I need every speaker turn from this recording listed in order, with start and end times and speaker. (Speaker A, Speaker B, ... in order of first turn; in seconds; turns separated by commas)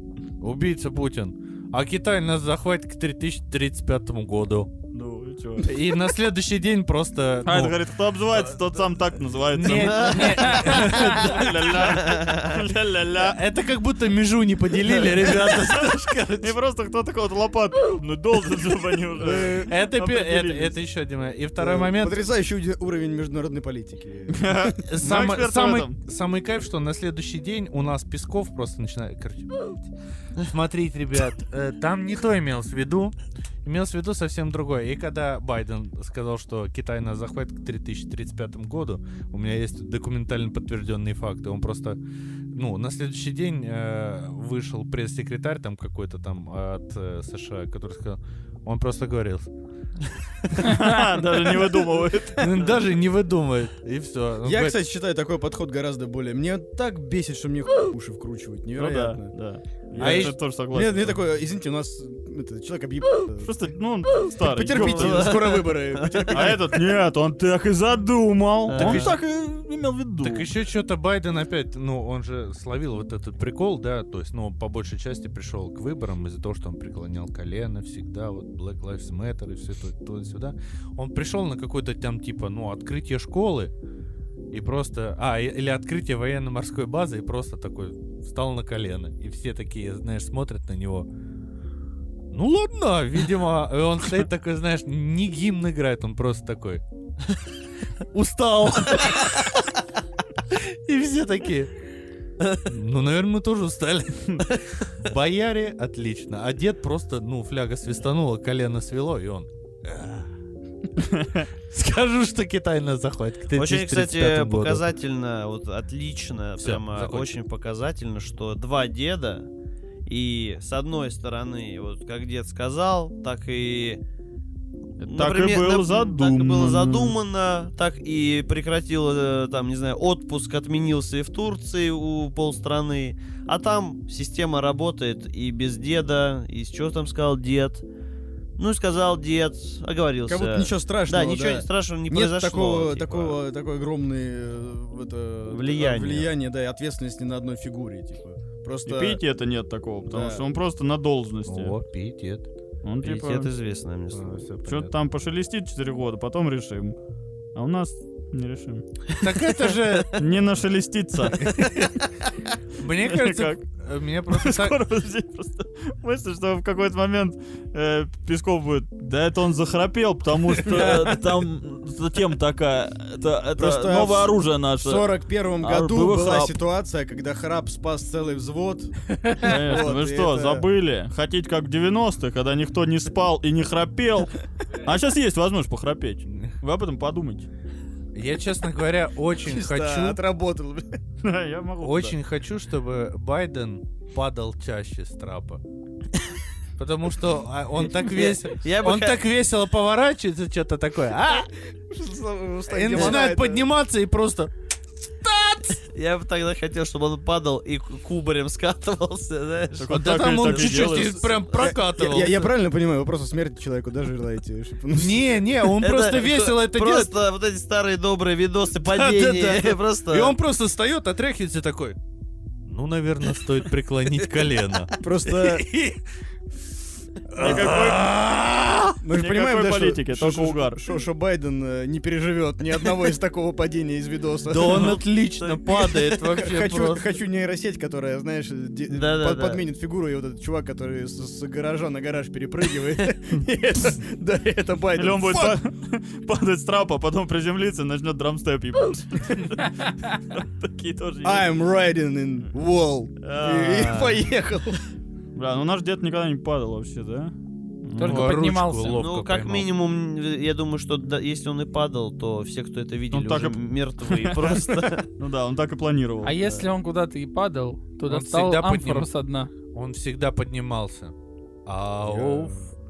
Speaker A: 0.4-4.7, Speaker B: 4.9-5.7, Speaker A: 5.6-7.8, Speaker B: 7.5-13.4, Speaker A: 9.5-11.7, Speaker C: 9.7-11.0, Speaker C: 11.8-12.5, Speaker A: 13.1-16.6, Speaker B: 15.0-15.9, Speaker B: 16.4-20.8, Speaker D: 19.2-19.7, Speaker A: 19.6-22.2, Speaker D: 21.6-24.8, Speaker B: 24.3-26.0, Speaker A: 24.9-29.9, Speaker A: 30.4-42.0, Speaker A: 42.5-49.5, Speaker B: 50.5-52.8, Speaker A: 50.6-51.1, Speaker A: 52.4-54.8, Speaker D: 54.5-59.3, Speaker B: 58.8-61.2, Speaker D: 60.0-63.7, Speaker A: 60.0-60.4, Speaker B: 63.4-65.5, Speaker D: 64.4-66.8, Speaker C: 64.6-66.5, Speaker B: 66.3-70.5, Speaker C: 68.7-69.2, Speaker A: 68.7-69.2, Speaker A: 70.2-83.7, Speaker A: 84.5-91.1, Speaker A: 92.3-96.8, Speaker A: 98.1-99.5, Speaker A: 100.5-101.7, Speaker A: 102.6-110.3, Speaker B: 111.0-111.5, Speaker A: 111.7-114.9, Speaker C: 113.5-119.5, Speaker A: 116.6-117.3, Speaker C: 120.1-124.0, Speaker B: 125.0-127.2, Speaker C: 125.0-137.8, Speaker C: 138.6-143.4, Speaker D: 140.3-149.2, Speaker C: 145.5-146.3, Speaker B: 148.9-151.8, Speaker D: 150.1-150.4, Speaker A: 151.5-152.5, Speaker B: 152.8-153.5, Speaker C: 153.0-154.5, Speaker A: 154.1-154.9, Speaker B: 154.6-157.0, Speaker B: 157.6-159.5, Speaker A: 159.1-160.3, Speaker B: 160.1-161.8, Speaker A: 161.4-162.0, Speaker A: 162.8-164.8, Speaker B: 163.1-163.6, Speaker B: 164.3-176.6, Speaker D: 170.7-171.2, Speaker D: 173.6-180.7, Speaker B: 179.4-187.5, Speaker A: 186.3-186.6, Speaker A: 188.1-190.2, Speaker D: 189.4-191.0, Speaker B: 191.2-192.2, Speaker A: 191.8-195.6, Speaker A: 196.8-201.5, Speaker C: 198.0-199.2, Speaker D: 201.9-203.6, Speaker A: 202.7-204.5, Speaker A: 205.2-205.8, Speaker C: 205.7-211.5, Speaker B: 209.7-211.4, Speaker A: 209.9-212.5, Speaker D: 211.5-215.2, Speaker A: 214.9-217.1, Speaker C: 215.8-220.4, Speaker A: 218.8-222.0, Speaker A: 222.7-226.0, Speaker D: 225.0-225.7, Speaker A: 227.3-229.0, Speaker B: 227.3-228.1, Speaker D: 229.0-235.0, Speaker B: 229.1-230.8, Speaker A: 234.5-237.1, Speaker C: 234.7-235.7, Speaker D: 235.7-245.6, Speaker C: 238.9-239.6, Speaker B: 245.0-251.5, Speaker D: 251.2-254.8, Speaker C: 253.2-254.2, Speaker B: 255.3-257.4, Speaker C: 257.9-258.3, Speaker A: 258.0-259.7, Speaker E: 258.0-259.0, Speaker C: 258.9-265.1, Speaker B: 263.1-266.6, Speaker E: 266.2-269.5, Speaker A: 268.1-269.1, Speaker A: 269.7-271.1, Speaker A: 271.7-272.6, Speaker D: 272.1-272.7